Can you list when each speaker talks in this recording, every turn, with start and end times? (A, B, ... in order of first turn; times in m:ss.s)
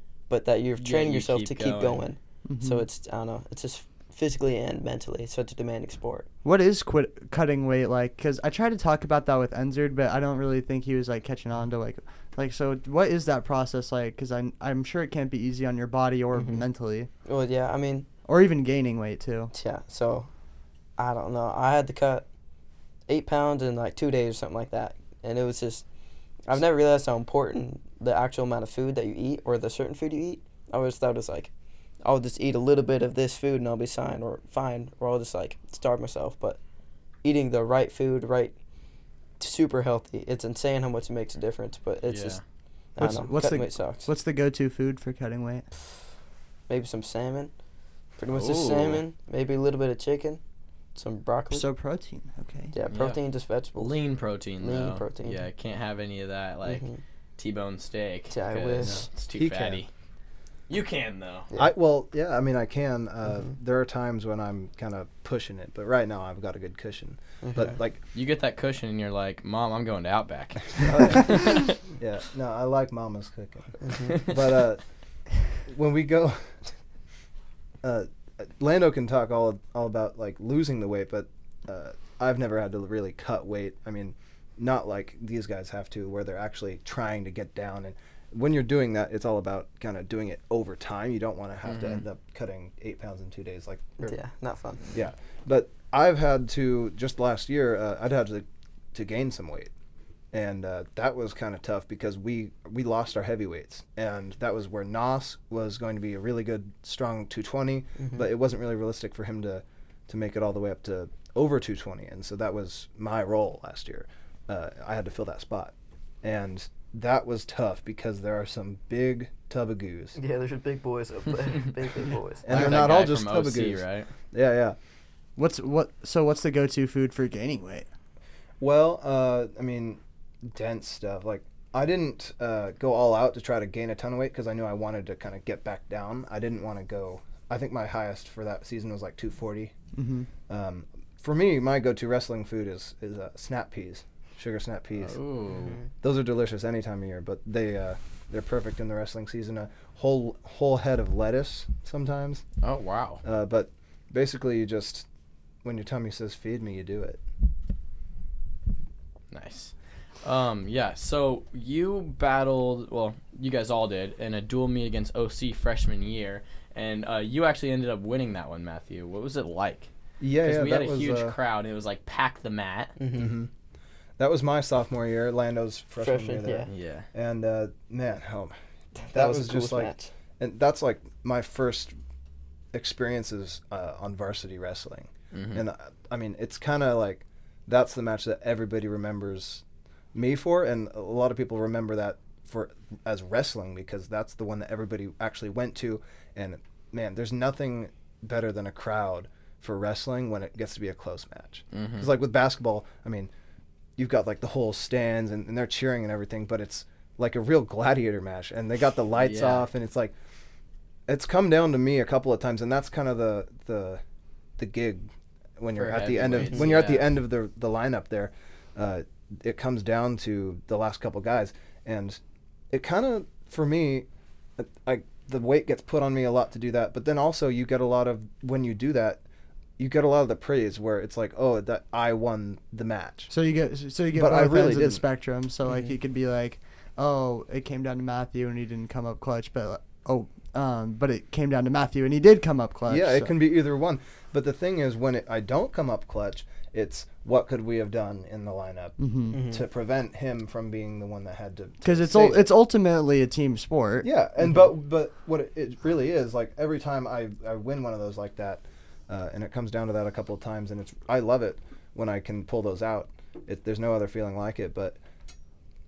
0:00.3-0:06.3 A
0:00.8-0:02.0 B
0:02.5-0:02.8 C
0:06.4-0:17.1 C
0:16.3-0:16.6 A
0:17.2-0:18.1 A
0:18.3-0:19.5 C
0:19.5-0:20.3 A
0:21.0-0:22.3 A
0:23.1-0:25.8 A
0:26.5-0:31.5 A
0:32.0-0:36.6 A
0:37.2-0:38.6 A
0:39.4-0:42.4 A
0:42.1-0:42.4 B
0:43.0-0:44.1 A
0:43.0-0:45.6 C
0:46.7-0:47.5 A
0:48.2-0:50.4 A
0:48.3-0:49.0 B
0:51.0-0:51.7 A
0:51.5-0:52.7 C
0:52.7-0:54.0 A
0:52.9-0:53.2 B
0:53.8-0:56.8 B
0:54.6-0:55.4 A
0:56.6-0:57.0 A
0:57.4-0:59.9 B
0:58.3-0:59.1 A
0:58.8-0:59.8 D
1:00.7-1:01.5 B
1:01.6-1:08.0 D
1:07.4-1:07.8 A
1:08.1-1:11.8 B
1:10.8-1:14.8 D
1:13.8-1:14.3 A
1:15.6-1:16.6 D
1:17.8-1:34.2 D
1:31.7-1:32.0 B
1:34.0-1:34.8 A
1:34.9-1:39.7 D
1:40.3-2:00.2 D
1:48.0-1:48.2 A
2:00.2-2:02.5 A
2:02.4-2:04.8 D
2:02.5-2:04.1 B
2:05.4-2:07.9 C
2:08.6-2:19.7 D
2:19.9-2:20.3 C
2:20.5-2:25.2 D
2:25.0-2:25.8 B
2:26.0-2:32.4 D
2:32.6-2:33.2 B
2:33.2-2:35.1 D
2:35.6-2:37.2 D
2:39.3-2:49.9 B
2:50.2-2:51.4 D
2:50.4-2:53.0 B
2:53.0-2:53.3 A
2:53.1-2:53.5 D
2:54.2-2:58.5 D
2:56.0-2:56.7 A
2:56.7-2:57.1 B
2:59.0-3:00.1 A
2:59.1-3:01.9 D
3:02.7-3:23.3 D
3:05.3-3:05.6 B
3:21.7-3:22.1 B
3:24.0-3:30.1 D
3:29.2-3:29.7 B
3:31.1-3:34.0 D
3:34.6-3:42.2 D
3:35.8-3:37.1 B
3:42.7-3:44.1 D
3:44.6-3:49.2 D
3:49.8-3:53.3 D
3:53.3-4:03.3 C
3:54.1-3:55.0 D
3:55.7-3:55.9 A
4:02.9-4:12.5 D
4:09.0-4:09.4 C
4:09.3-4:09.6 A
4:11.8-4:14.1 C
4:14.0-4:25.0 D